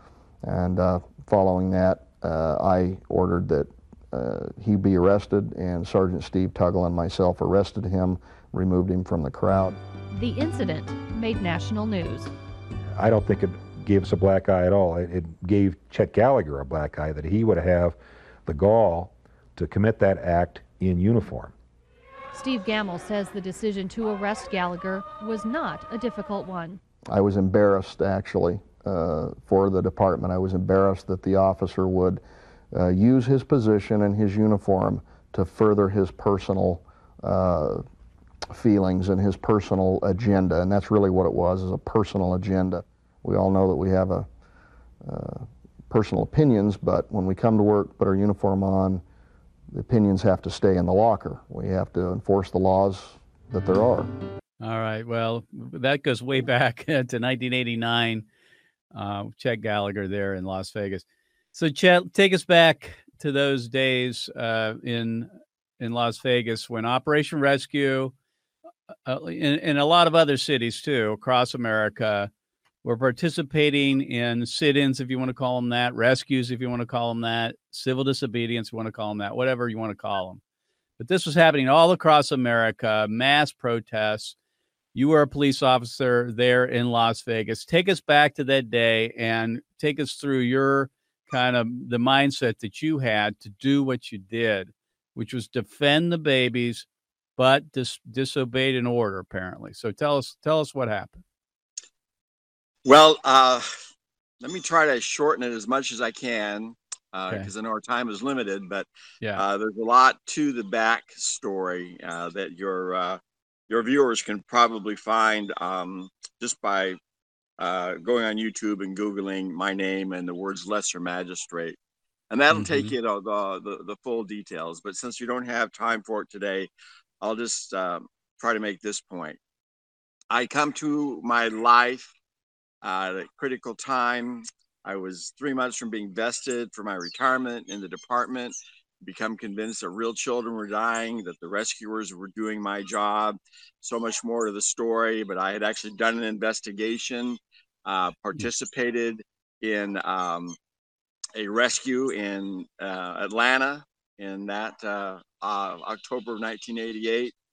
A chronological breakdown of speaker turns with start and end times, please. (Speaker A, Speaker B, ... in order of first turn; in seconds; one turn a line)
Speaker A: 0.4-9.8
Speaker B: 10.1-12.3
Speaker C: 12.9-21.5
Speaker B: 22.3-26.8
Speaker A: 27.1-32.2
Speaker A: 32.7-37.8
Speaker A: 38.5-44.2
Speaker A: 45.0-49.0
Speaker A: 49.7-54.1
Speaker D: 54.6-58.2
Speaker D: 58.9-68.1
Speaker D: 69.0-72.3
Speaker D: 72.8-80.4
Speaker D: 81.0-84.3
Speaker D: 84.9-96.8
Speaker D: 97.4-101.2
Speaker E: 102.8-103.7
Speaker E: 104.4-117.0
Speaker E: 117.6-121.8
Speaker E: 122.3-126.7
Speaker D: 122.5-122.9
Speaker E: 127.2-129.4
Speaker E: 130.3-132.1
Speaker E: 132.8-150.6
Speaker E: 151.3-157.3